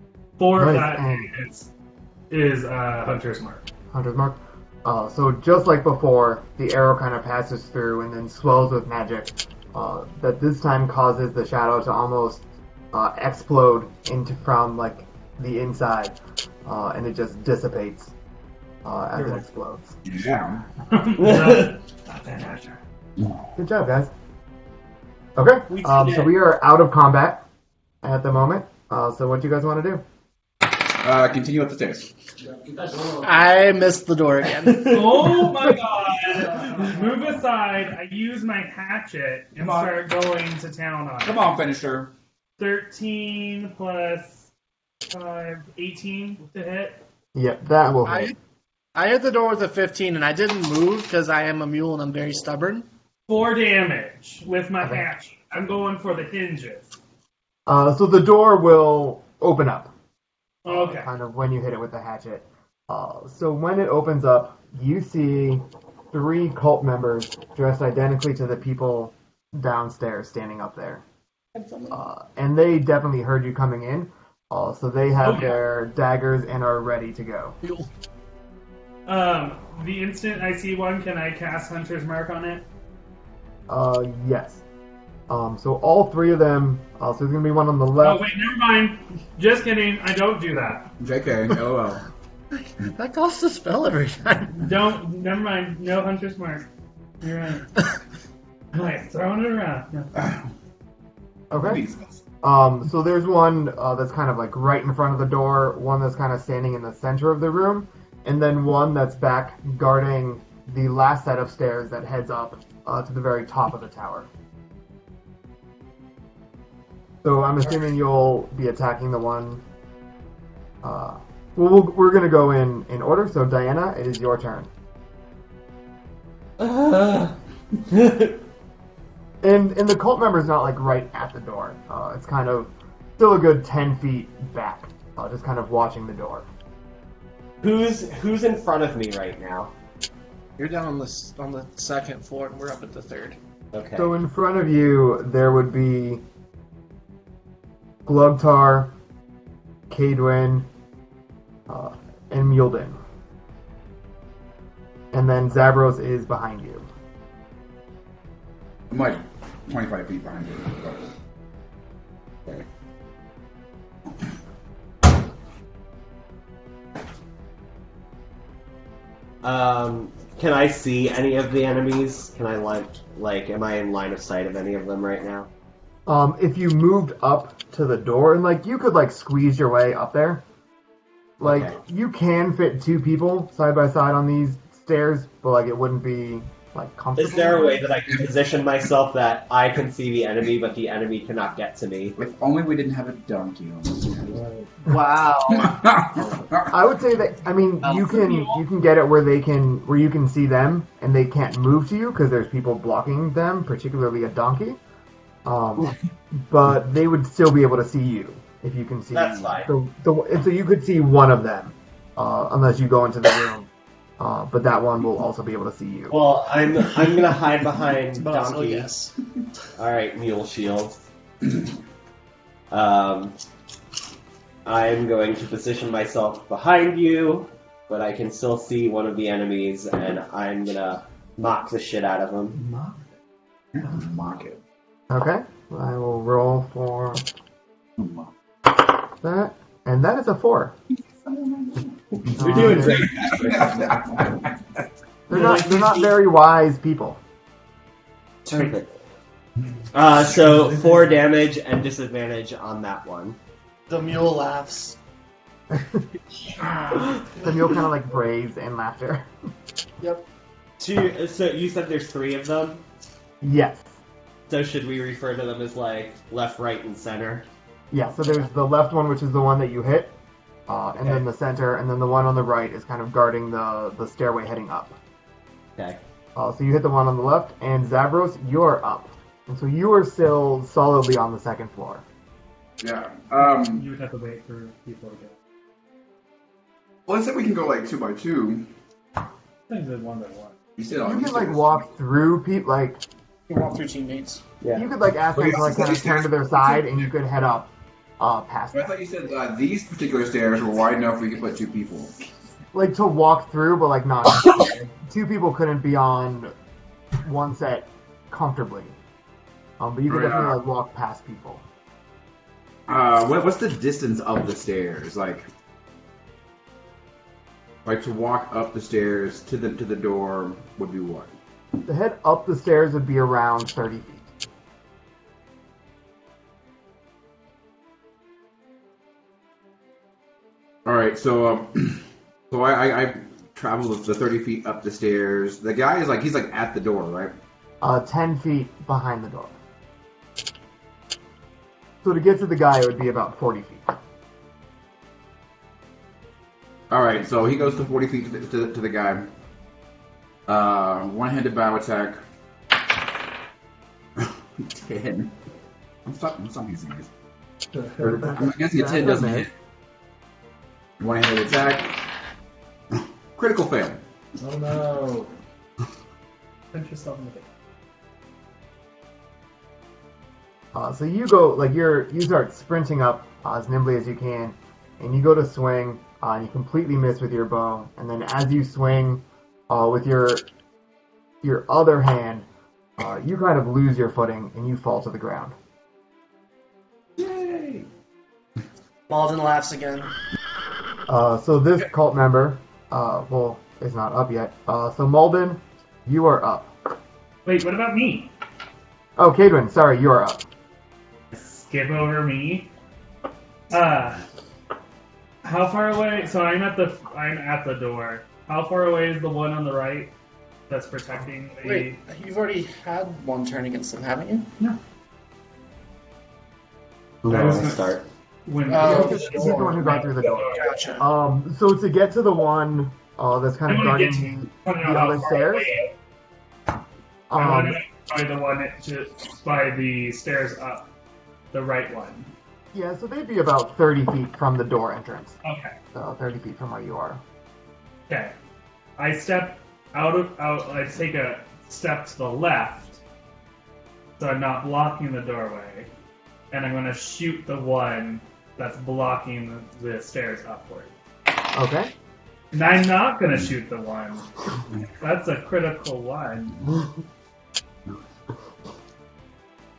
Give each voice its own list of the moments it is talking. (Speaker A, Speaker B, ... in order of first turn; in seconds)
Speaker A: 0.4-1.7, 2.3-3.6, 19.2-19.4, 20.9-22.8, 34.8-41.4, 42.6-44.5, 45.1-47.0, 53.3-56.9, 60.6-61.1, 75.2-75.6, 79.1-82.6, 88.0-90.9, 94.5-96.7, 97.2-97.7, 98.7-100.1, 232.6-233.0, 283.4-285.4, 289.7-290.5, 366.7-367.5, 397.4-398.3, 401.3-402.7, 403.7-404.2, 405.4-410.1, 410.7-412.0, 417.2-417.9, 418.5-420.7, 423.7-425.9, 427.4-430.9, 431.5-432.3, 435.4-435.8, 438.1-438.4, 439.0-443.0, 444.2-445.9, 446.5-450.9, 452.5-454.3, 455.0-456.7
Speaker B: 0.6-1.3, 3.9-18.1, 18.9-20.0, 23.6-24.1, 25.4-27.4, 28.0-30.0, 47.4-48.3, 57.7-59.9, 60.6-71.0, 71.9-77.6, 83.7-84.6, 85.3-88.2, 101.5-101.8, 102.4-114.3, 117.2-119.6, 120.8-124.7, 129.4-136.5, 144.0-146.2, 148.1-148.9, 149.9-150.7, 151.7-153.0, 155.1-156.9, 176.1-180.4, 181.4-187.9, 196.7-204.8, 205.4-216.2, 235.1-237.2, 239.2-240.7, 242.4-243.1, 245.3-247.2, 255.7-256.0, 257.4-259.3, 263.4-263.9, 267.9-270.1, 270.7-275.0, 276.4-282.0, 291.0-293.0, 294.8-298.9, 302.7-306.5, 307.2-308.9, 309.8-311.6, 321.9-324.3, 337.8-339.6, 342.0-343.9, 358.2-359.5, 370.7-380.5, 381.4-382.5, 383.0-385.6, 391.1-396.7, 399.2-400.4, 418.8-425.7, 427.3-427.8, 432.7-435.4, 435.9-437.2, 451.5-451.9
Speaker C: 20.1-20.6, 30.9-32.1, 39.6-40.0, 41.2-42.1, 91.0-92.0, 100.2-100.4, 101.5-102.2, 158.9-161.1, 192.2-194.3, 195.5-196.7, 233.8-234.6, 238.0-238.3, 241.2-244.6, 282.8-283.8, 287.1-288.7, 290.8-291.9, 295.3-296.9, 298.7-302.1, 310.1-310.6, 312.9-315.5, 317.9-321.3, 330.9-337.3, 346.9-349.3, 350.5-352.2, 354.2-355.3, 356.1-357.1, 358.0-359.5, 361.0-362.0, 362.9-364.0, 387.2-387.9
Speaker D: 21.2-21.7, 25.7-26.3, 34.7-35.2, 126.6-127.3, 127.9-128.4, 137.6-139.7, 143.7-144.1, 169.4-175.5, 181.4-181.8, 187.2-192.2, 209.1-209.7, 216.1-218.9, 219.8-221.0, 222.7-223.3, 224.6-232.6, 242.3-243.8, 245.4-245.7, 248.4-249.0, 249.9-253.4, 260.8-262.8, 264.5-267.5, 417.2-418.1
Speaker E: 32.4-33.5, 36.6-37.0, 194.3-194.7, 357.7-358.3, 364.4-365.3
Speaker F: 33.2-35.2, 48.0-48.4, 49.0-52.9, 71.6-71.9, 92.5-94.6, 140.6-143.4, 194.9-195.7, 218.2-219.1, 253.9-255.0, 256.6-257.2, 293.5-294.4, 389.1-390.1, 411.6-414.5, 418.6-421.1